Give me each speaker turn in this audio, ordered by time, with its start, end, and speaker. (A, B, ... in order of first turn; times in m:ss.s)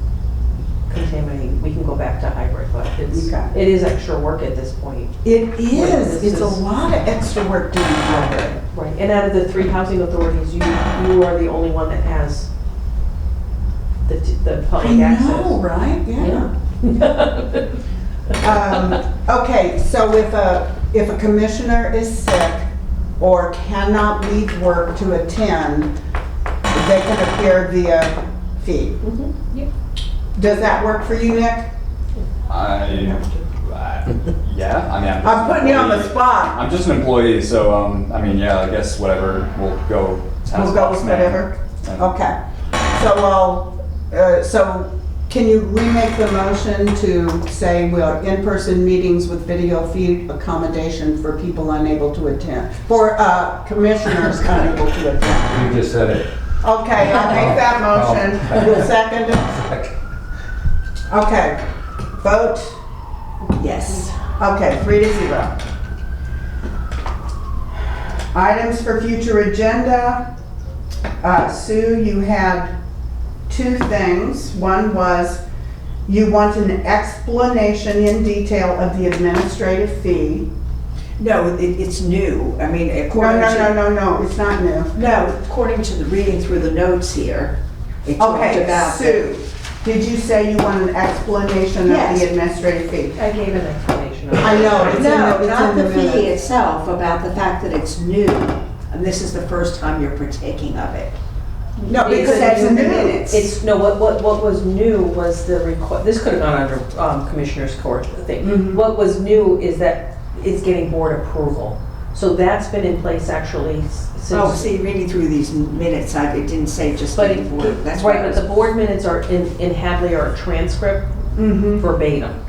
0:00.9-0:06.6 A
0:03.1-0:03.5 B
0:05.2-0:08.6 B
0:08.1-0:12.5 A
0:14.0-0:15.6 A
0:14.8-0:16.5 B
0:16.2-0:17.8 A
0:18.4-0:22.7 B
0:23.2-0:25.9 B
0:26.7-0:29.0 B
0:29.0-0:29.6 A
0:30.4-0:31.7 B
0:32.5-0:42.0 C
0:35.2-0:36.6 B
0:40.5-0:55.7 B
0:55.5-0:56.3 D
0:56.6-0:59.6 B
0:57.0-0:58.9 D
0:59.6-0:59.9 D
1:01.1-1:01.6 B
1:02.2-1:02.7 B
1:03.6-1:04.1 E
1:04.4-1:05.6 B
1:08.3-1:10.2 B
1:11.2-1:12.7 B
1:13.5-1:15.4 B
1:16.1-1:20.5 B
1:21.2-1:23.8 E
1:23.1-1:25.0 B
1:24.9-1:29.2 E
1:28.2-1:33.2 B
1:31.8-1:32.3 E
1:33.2-1:35.1 A
1:34.4-1:36.3 B
1:34.7-1:41.2 E
1:41.8-1:54.7 A
1:41.9-1:43.4 B
1:42.0-1:43.2 E
1:48.4-1:48.8 B
1:54.3-1:58.4 E
1:57.1-2:02.4 A
2:01.4-2:01.8 B